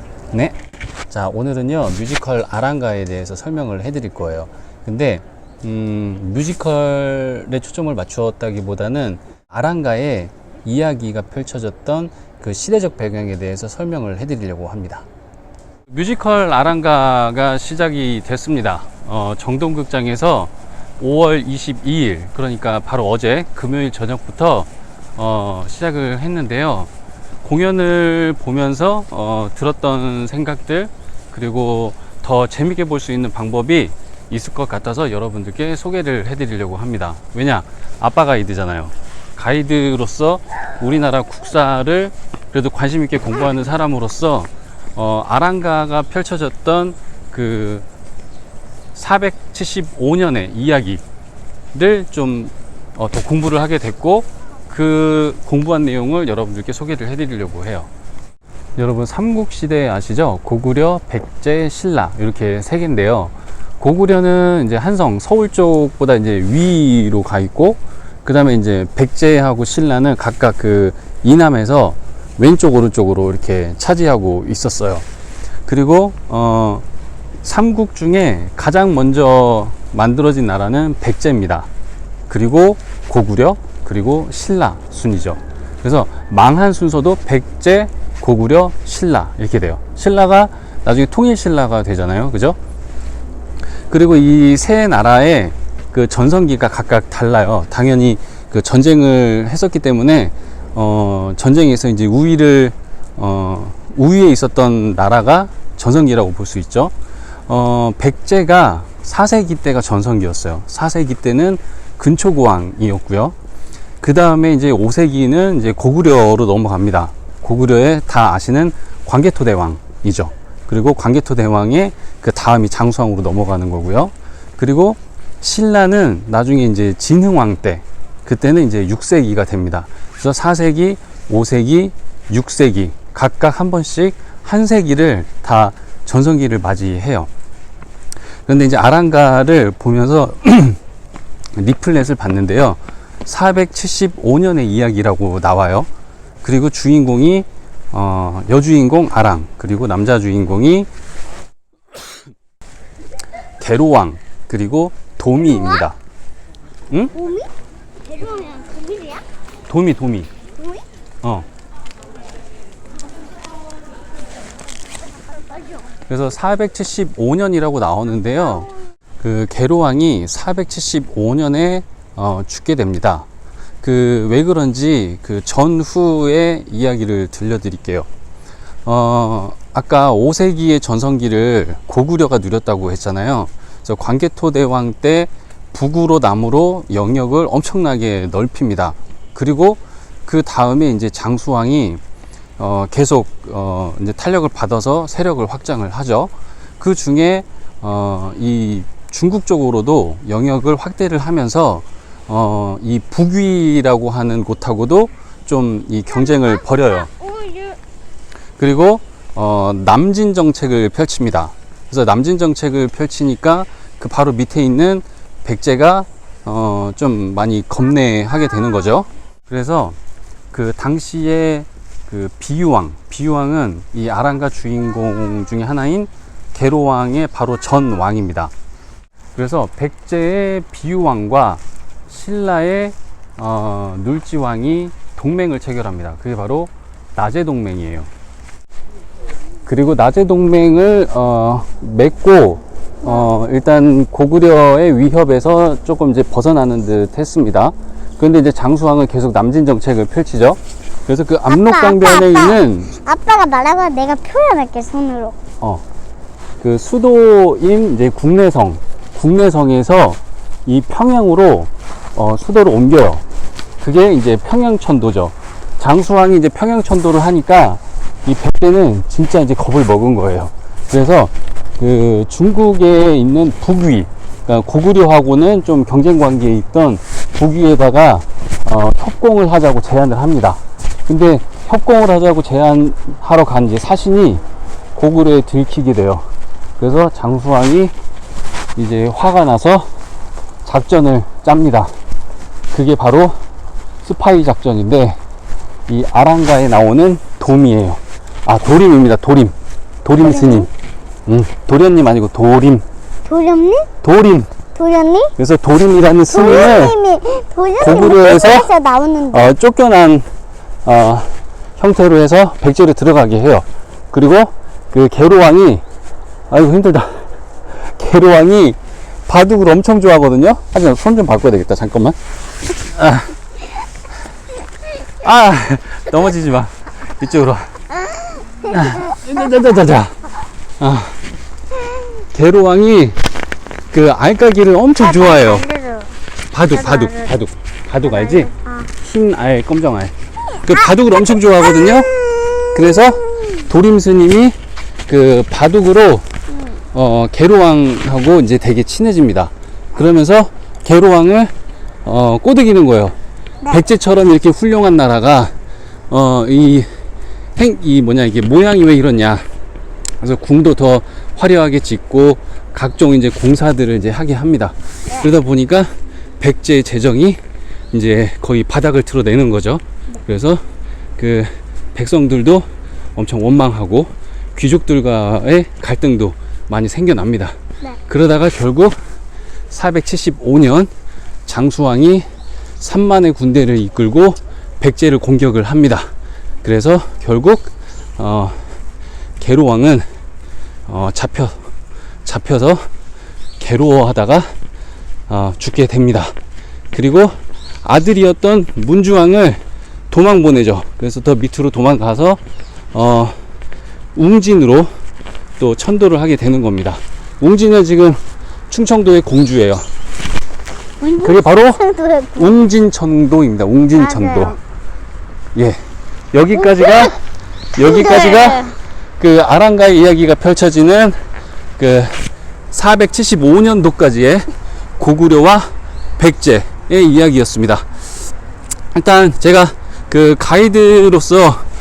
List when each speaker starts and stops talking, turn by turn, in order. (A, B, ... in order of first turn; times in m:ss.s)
0:01.1-0:15.0 A
0:15.9-0:26.9 A
0:27.4-0:47.8 A
0:49.0-0:51.0 A
0:51.7-0:57.9 A
0:58.8-1:15.0 A
1:15.7-1:16.8 A
1:17.4-1:21.7 A
1:22.3-1:32.6 A
1:33.9-1:46.9 A
1:47.5-1:53.4 A
1:54.0-2:17.3 A
2:18.5-2:20.8 A
2:21.6-2:25.9 A
2:26.4-2:30.9 A
2:33.6-2:36.0 A
2:37.1-2:37.5 B
2:38.0-2:39.2 B
2:39.7-2:40.3 A
2:40.6-2:40.8 B
2:46.1-2:53.3 A
2:53.8-2:58.1 A
2:58.9-3:12.0 A
3:12.6-3:27.1 A
3:26.2-3:27.8 B
3:28.6-3:40.0 A
3:40.5-3:48.5 A
3:49.4-3:58.1 A
3:59.7-4:12.9 A
4:11.5-4:15.4 B
4:16.6-4:23.2 A
4:23.8-4:44.4 A
4:45.0-4:46.3 A
4:46.8-4:47.9 A
4:48.8-4:49.9 A
4:50.6-4:51.9 A
4:52.7-4:53.4 A
4:54.0-4:55.2 A
4:55.9-4:59.5 A
5:00.0-5:00.7 A
5:00.2-5:00.7 B
5:01.3-5:02.8 A
5:03.2-5:03.9 B
5:04.0-5:04.5 A
5:04.8-5:05.3 B
5:05.4-5:07.0 A
5:06.3-5:09.5 B
5:07.8-5:08.7 A
5:09.3-5:10.3 A
5:10.8-5:15.8 A
5:16.5-5:17.2 A
5:17.8-5:22.2 A
5:22.8-5:23.3 A
5:25.2-5:27.7 A
5:28.6-5:30.2 A
5:30.8-5:31.2 A
5:32.3-5:33.2 A
5:33.9-5:35.7 A
5:35.0-5:36.1 B
5:36.5-5:42.2 A
5:36.7-5:37.4 B
5:38.0-5:38.9 B
5:40.7-5:43.6 B
5:42.7-5:44.6 A
5:45.1-5:46.2 A
5:46.5-5:46.8 B
5:46.9-5:51.5 A
5:52.0-5:53.2 A
5:53.7-5:55.5 A
5:56.1-5:56.9 A
5:57.6-5:59.4 A
6:00.2-6:07.4 A
6:07.9-6:10.6 A
6:11.2-6:17.6 A
6:18.1-6:19.0 A
6:19.7-6:20.9 A
6:21.5-6:22.3 A
6:22.8-6:26.1 A
6:26.6-6:28.6 A
6:29.4-6:30.0 A
6:30.9-6:31.6 A
6:32.2-6:32.8 A
6:33.6-6:34.5 A
6:35.3-6:36.3 A
6:36.9-6:42.4 A
6:42.9-6:43.3 A
6:44.2-6:44.9 A
6:45.6-6:48.2 A
6:48.7-6:49.9 A
6:51.0-6:52.7 B
6:51.2-6:51.8 A
6:52.4-6:54.6 A
6:53.9-6:54.6 B
6:55.6-6:55.8 A
6:56.3-6:57.2 A
6:56.8-6:57.1 B
6:57.8-7:01.2 A
6:57.8-6:58.8 B
7:01.8-7:05.7 A
7:06.2-7:07.9 A
7:08.9-7:11.6 A